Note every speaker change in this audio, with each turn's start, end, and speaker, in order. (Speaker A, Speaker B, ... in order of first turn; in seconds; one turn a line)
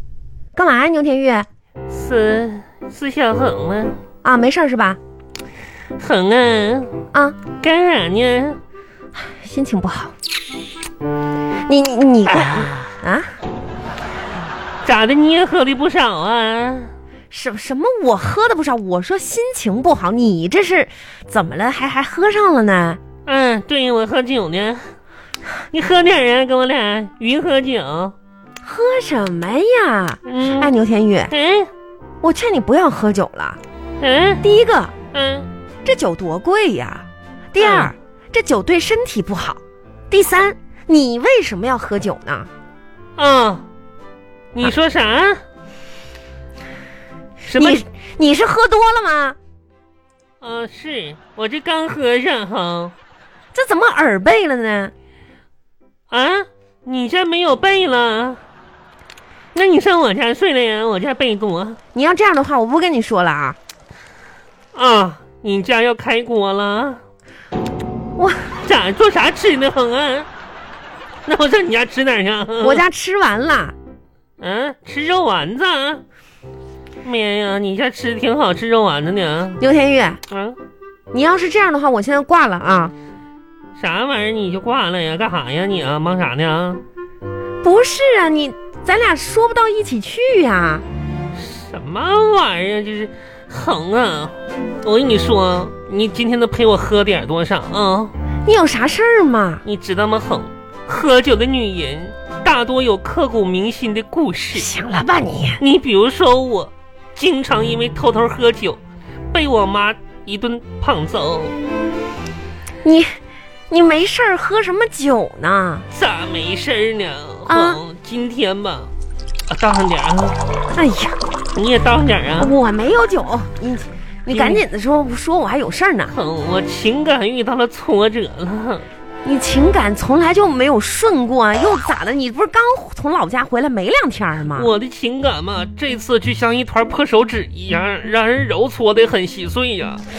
Speaker A: 0.5-1.4
Speaker B: 1.9-4.0
Speaker A: 4.2-5.0
Speaker B: 6.0-6.9
Speaker B: 7.6-8.6
Speaker A: 9.2-10.1
Speaker A: 11.7-13.3
Speaker B: 12.3-12.9
Speaker B: 14.8-16.9
Speaker A: 17.3-23.0
Speaker B: 23.2-24.9
Speaker B: 25.7-28.1
Speaker A: 28.6-31.3
Speaker B: 30.2-30.7
Speaker B: 31.3-31.7
Speaker A: 32.2-33.6
Speaker B: 34.0-34.4
Speaker A: 34.4-34.9
Speaker B: 35.1-35.5
Speaker A: 35.8-42.5
Speaker B: 37.6-37.9
Speaker B: 43.2-43.6
Speaker B: 44.5-45.4
Speaker A: 47.4-49.4
Speaker B: 47.5-47.8
Speaker B: 50.4-52.9
Speaker A: 53.5-54.9
Speaker B: 56.1-58.4
Speaker B: 59.5-61.8
Speaker A: 61.9-63.6
Speaker B: 64.7-67.0
Speaker A: 68.2-68.5
Speaker B: 68.6-70.3
Speaker B: 71.2-72.8
Speaker A: 72.6-73.7
Speaker B: 74.4-76.0
Speaker B: 77.0-79.6
Speaker A: 79.6-80.2
Speaker B: 80.3-80.6
Speaker A: 81.1-82.9
Speaker B: 83.8-86.8
Speaker A: 87.6-90.8
Speaker B: 91.3-98.1
Speaker A: 98.5-99.6
Speaker B: 99.6-104.7
Speaker A: 104.5-105.6
Speaker B: 105.6-108.8
Speaker B: 109.3-111.5
Speaker A: 112.8-113.1
Speaker A: 113.7-115.8
Speaker B: 115.9-118.9
Speaker A: 117.5-117.8
Speaker B: 119.5-120.4
Speaker A: 120.7-121.2
Speaker B: 121.5-122.5
Speaker A: 122.4-126.1
Speaker B: 124.3-124.6
Speaker B: 126.1-128.9
Speaker A: 129.2-134.7
Speaker B: 134.5-140.0